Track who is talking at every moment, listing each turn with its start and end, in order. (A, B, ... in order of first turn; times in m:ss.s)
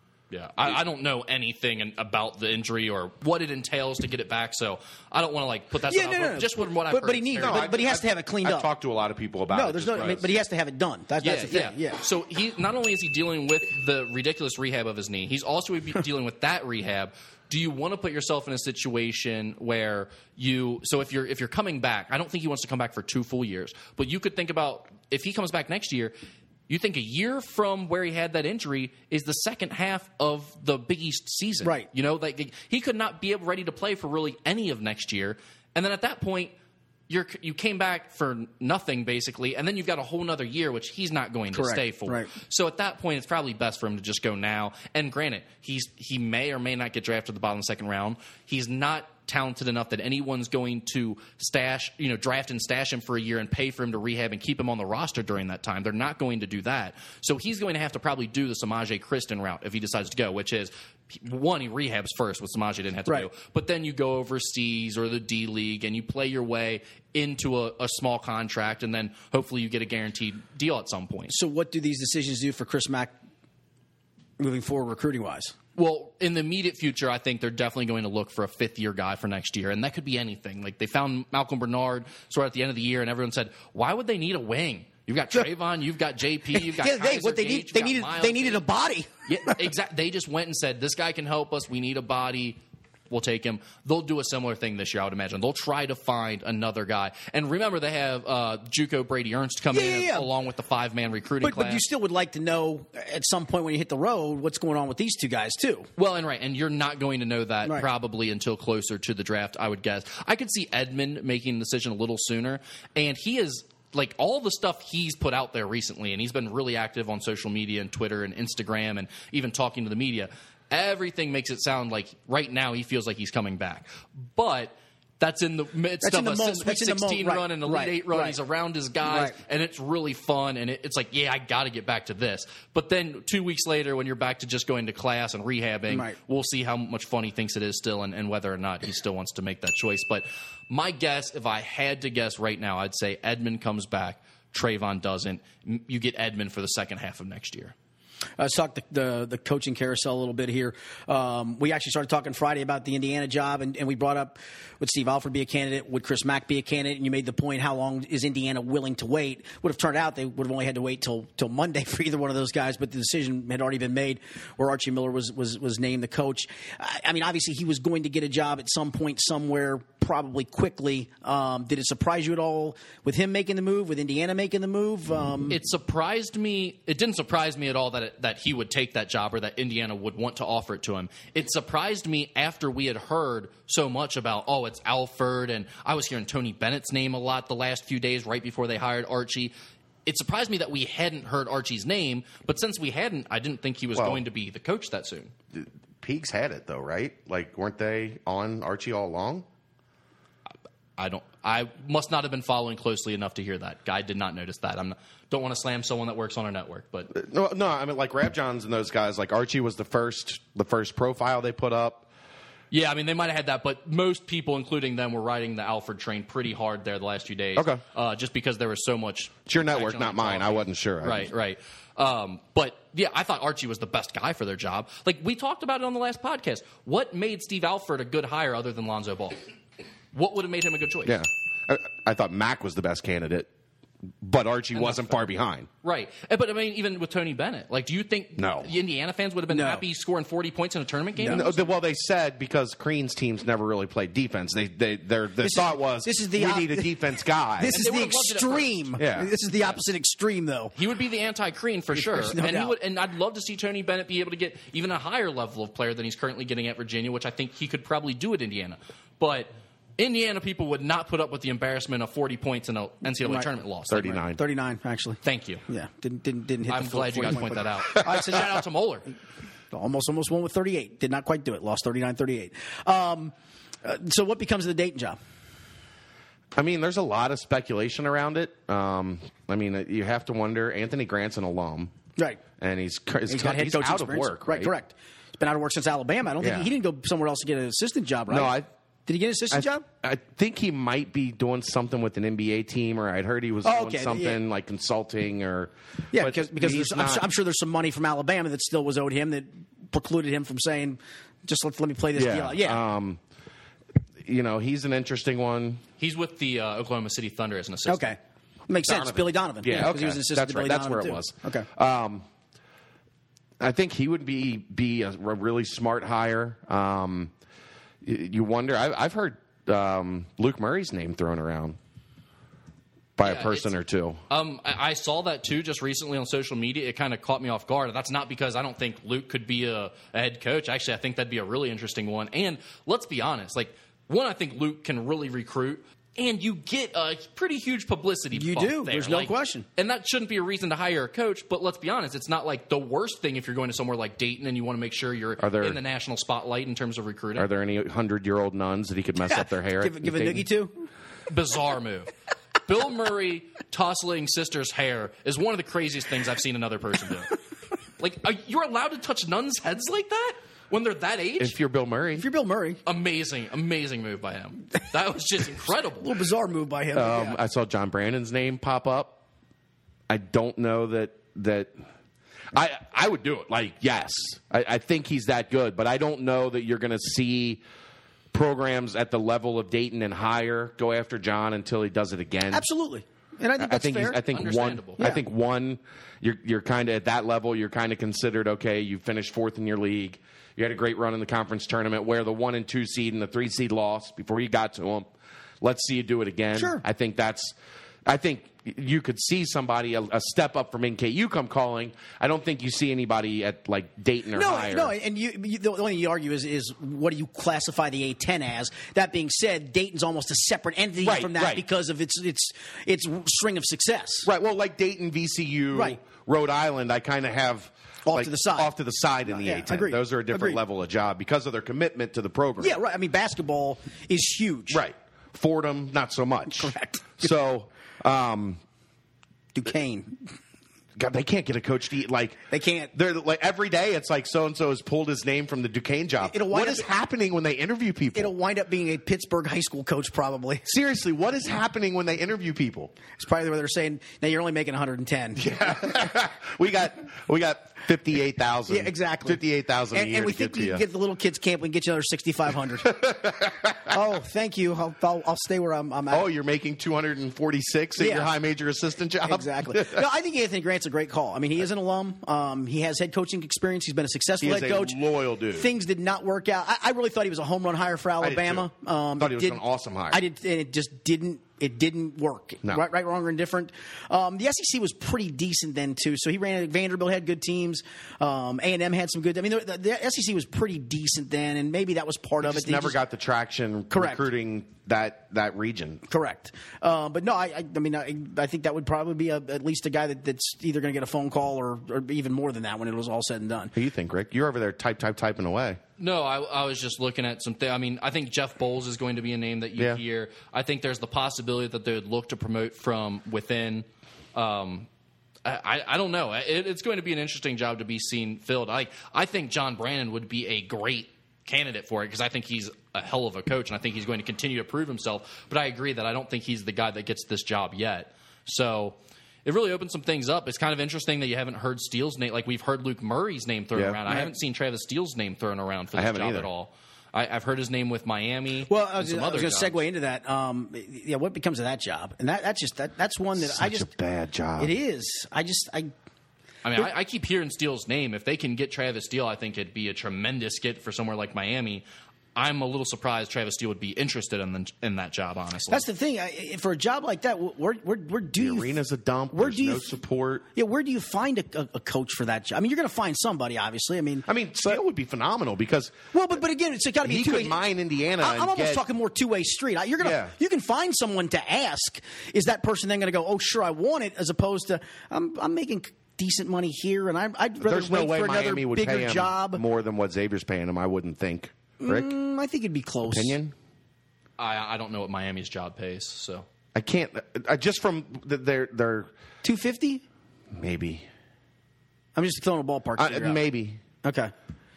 0:00.3-0:07.7 A
0:05.9-0:08.7 B
0:07.4-0:10.3 C
0:09.5-0:12.0 B
0:11.2-0:26.1 A
0:26.7-0:36.5 A
0:37.1-1:11.3 A
0:41.5-0:42.3 B
1:11.3-1:13.1 B
1:14.4-1:15.6 B
1:15.8-1:28.6 A
1:26.5-1:29.6 B
1:29.3-1:32.6 A
1:33.1-1:41.8 A
1:39.7-1:40.3 B
1:41.4-1:45.9 B
1:46.0-2:27.7 A
2:06.0-2:08.4 B
2:09.0-2:09.4 B
2:15.9-2:16.2 B
2:28.4-2:55.6 B
2:55.5-3:09.5 A
3:10.1-3:15.3 A
3:14.0-3:14.2 C
3:15.5-3:19.5 C
3:21.0-3:27.1 A
3:27.1-3:32.1 C
3:32.7-3:49.4 A
3:37.6-3:37.8 C
3:39.5-3:41.3 C
3:50.1-3:51.2 A
3:51.0-3:53.5 C
3:54.2-3:55.7 C
3:54.8-3:55.1 A
3:55.8-4:01.7 A
3:58.4-3:58.7 C
3:59.5-3:59.8 B
4:01.2-4:01.5 B
4:01.3-4:07.8 C
4:05.4-4:06.9 B
4:07.6-4:10.7 B
4:07.7-4:08.8 A
4:09.0-4:09.3 C
4:10.8-4:24.2 A
4:11.9-4:12.8 B
4:23.2-4:23.5 B
4:23.9-4:24.4 C
4:24.4-4:28.6 B
4:25.2-4:25.6 A
4:26.7-4:29.0 A
4:27.9-4:28.4 C
4:29.7-4:35.2 B
4:36.5-4:41.9 C
4:42.6-4:44.7 C
4:43.3-4:49.8 B
4:46.4-4:46.7 C
4:48.3-4:48.7 C
4:49.5-4:57.3 C
4:53.6-4:54.4 B
4:56.1-5:02.8 B
5:02.2-5:03.2 C
5:04.2-5:05.8 C
5:06.0-5:08.1 A
5:07.9-5:08.2 B
5:08.7-5:11.7 B
5:08.9-5:12.3 C
5:13.6-5:17.3 C
5:18.0-5:21.8 C
5:23.2-5:24.2 C
5:23.2-5:23.7 A
5:24.3-5:47.5 A
5:38.3-5:39.7 B
5:45.4-5:45.8 C
5:47.4-5:50.5 C
5:49.3-5:50.9 B
5:51.3-5:52.1 A
5:52.7-5:57.4 A
5:58.0-6:01.5 A
6:01.4-6:02.3 C
6:02.2-6:02.8 B
6:02.9-6:06.2 A
6:06.0-6:07.4 B
6:07.0-6:09.2 C
6:10.1-6:11.7 C
6:12.5-6:17.6 C
6:18.3-6:22.6 C
6:22.5-6:24.2 B
6:23.6-6:35.1 C
6:24.3-6:25.0 A
6:35.6-6:37.5 C
6:36.6-6:36.8 B
6:38.1-6:44.9 C
6:44.3-6:54.3 B
6:51.0-6:51.6 C
6:54.2-7:02.8 C
6:55.7-6:56.0 B
6:58.1-6:58.7 B
6:59.3-7:00.6 B
7:02.6-7:04.8 B
7:04.7-7:08.6 C
7:06.6-7:07.3 B
7:09.6-7:10.2 B
7:11.0-7:18.3 C
7:12.5-7:12.9 B
7:16.2-7:16.9 B
7:18.1-7:20.7 B
7:20.7-7:22.9 C
7:23.2-7:25.4 B
7:25.4-7:30.8 C
7:28.7-7:29.4 B
7:29.9-7:33.0 B
7:32.8-7:34.0 C
7:33.9-7:36.3 B
7:36.1-7:40.0 C
7:38.0-7:38.3 B
7:39.3-7:45.0 B
7:44.4-7:45.7 C
7:45.5-7:49.6 B
7:48.2-7:50.2 C
7:50.1-8:03.0 B
8:02.4-8:06.0 C
8:03.9-8:04.2 B
8:06.1-8:13.7 B
8:13.7-8:15.8 C
8:16.0-8:24.9 A
8:25.4-8:49.8 A
8:43.8-8:44.0 C
8:45.9-8:46.5 C
8:48.7-8:53.9 B
8:53.4-8:54.7 C
8:54.6-8:55.9 B
8:56.6-9:01.8 A
9:02.4-9:05.9 A
9:05.7-9:08.8 B
9:08.4-9:10.4 C
9:09.3-9:09.9 B
9:10.6-9:14.3 B
9:14.3-9:16.0 C
9:16.1-9:17.6 B
9:17.0-9:18.8 C
9:18.2-9:29.6 B
9:20.0-9:20.4 C
9:27.6-9:32.1 C
9:31.8-9:33.4 B
9:33.1-9:33.6 C
9:34.4-9:36.5 A
9:36.8-9:39.1 C
9:39.4-9:40.0 B
9:40.5-9:41.1 C
9:42.2-9:43.4 B
9:43.0-9:43.8 C
9:44.0-9:44.3 B